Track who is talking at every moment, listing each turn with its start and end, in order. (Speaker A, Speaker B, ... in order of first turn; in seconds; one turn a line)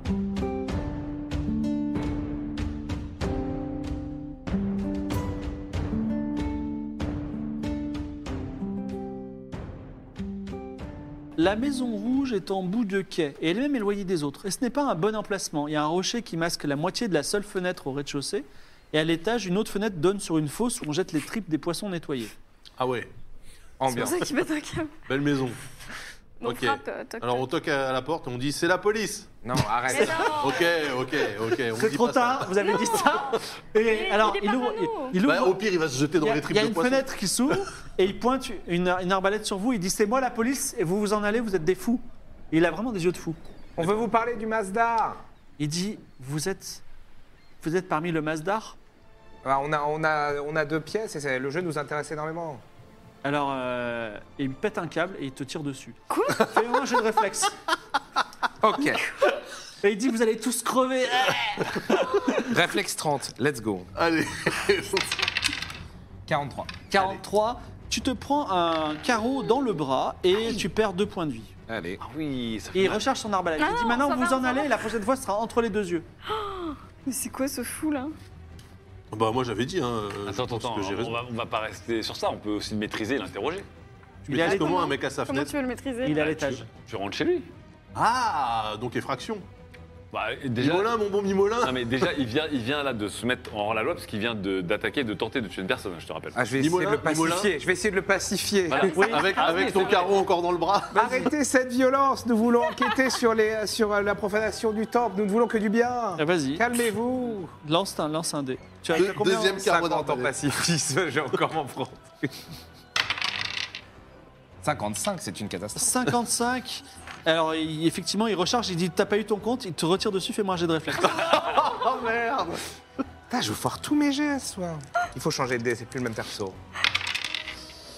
Speaker A: 11.4-22.3
Speaker B: 22.8-23.1
Speaker C: 23.8-24.2
Speaker D: 23.9-25.0
Speaker B: 25.1-25.6
Speaker D: 26.4-27.4
Speaker B: 26.4-29.3
Speaker C: 29.4-30.5
Speaker D: 29.9-30.8
Speaker B: 30.4-32.7
Speaker A: 31.7-35.6
Speaker D: 32.6-35.2
Speaker B: 35.2-37.1
Speaker A: 36.2-43.4
Speaker C: 43.8-45.2
Speaker A: 45.6-46.8
Speaker A: 47.6-48.8
Speaker C: 49.4-52.6
Speaker A: 53.2-57.6
Speaker D: 56.1-56.5
Speaker C: 58.6-59.1
Speaker A: 59.8-62.3
Speaker C: 62.4-63.9
Speaker B: 64.0-65.2
Speaker C: 66.2-66.8
Speaker A: 66.9-71.5
Speaker C: 71.7-72.0
Speaker E: 72.0-73.0
Speaker A: 72.7-76.0
Speaker D: 73.6-74.7
Speaker D: 76.2-78.1
Speaker B: 79.1-81.2
Speaker E: 80.2-83.7
Speaker A: 84.3-84.7
Speaker B: 84.3-85.5
Speaker D: 84.3-86.3
Speaker A: 86.0-86.7
Speaker E: 86.2-87.5
Speaker B: 87.9-89.4
Speaker E: 90.1-91.0
Speaker B: 90.6-92.1
Speaker E: 91.6-96.4
Speaker C: 96.3-99.1
Speaker B: 96.6-97.5
Speaker E: 98.7-100.2
Speaker A: 98.9-99.7
Speaker B: 99.0-101.3
Speaker C: 100.9-107.5
Speaker A: 106.2-106.7
Speaker A: 107.6-109.6
Speaker B: 108.9-110.3
Speaker C: 109.1-112.5
Speaker C: 114.6-116.1
Speaker A: 115.8-121.2
Speaker B: 121.0-122.7
Speaker C: 123.3-126.6